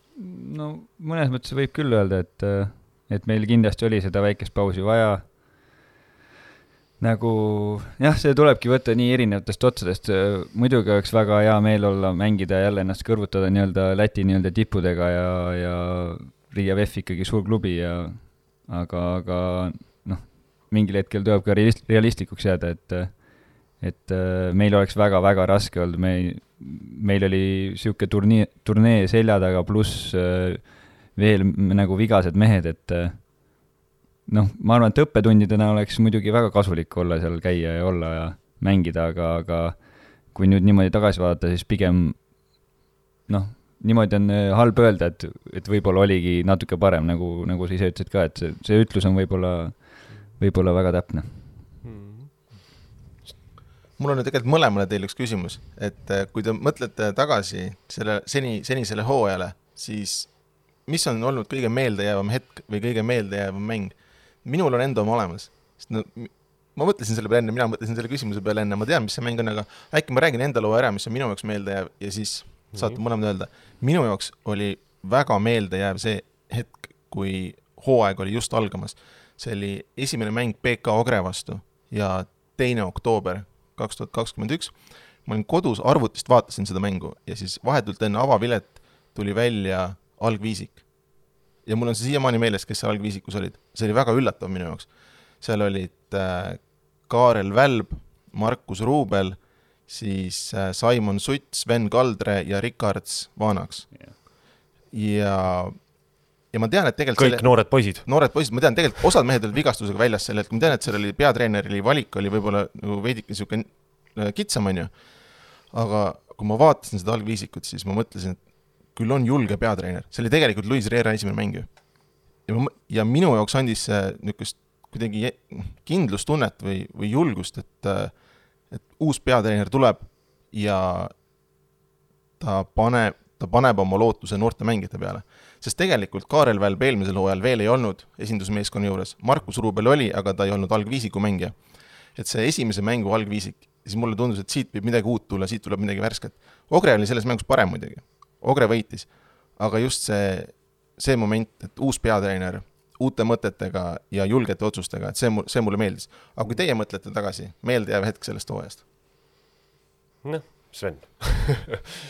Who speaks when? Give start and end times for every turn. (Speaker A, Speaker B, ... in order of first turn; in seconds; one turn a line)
Speaker A: 0.1-5.4
Speaker A: 7.0-33.7
Speaker A: 34.2-51.6
Speaker B: 51.8-52.5
Speaker C: 54.0-90.9
Speaker B: 72.7-73.0
Speaker C: 91.6-104.3
Speaker C: 104.8-106.0
Speaker C: 106.5-131.2
Speaker B: 107.2-108.6
Speaker C: 132.4-158.8
Speaker B: 160.2-161.8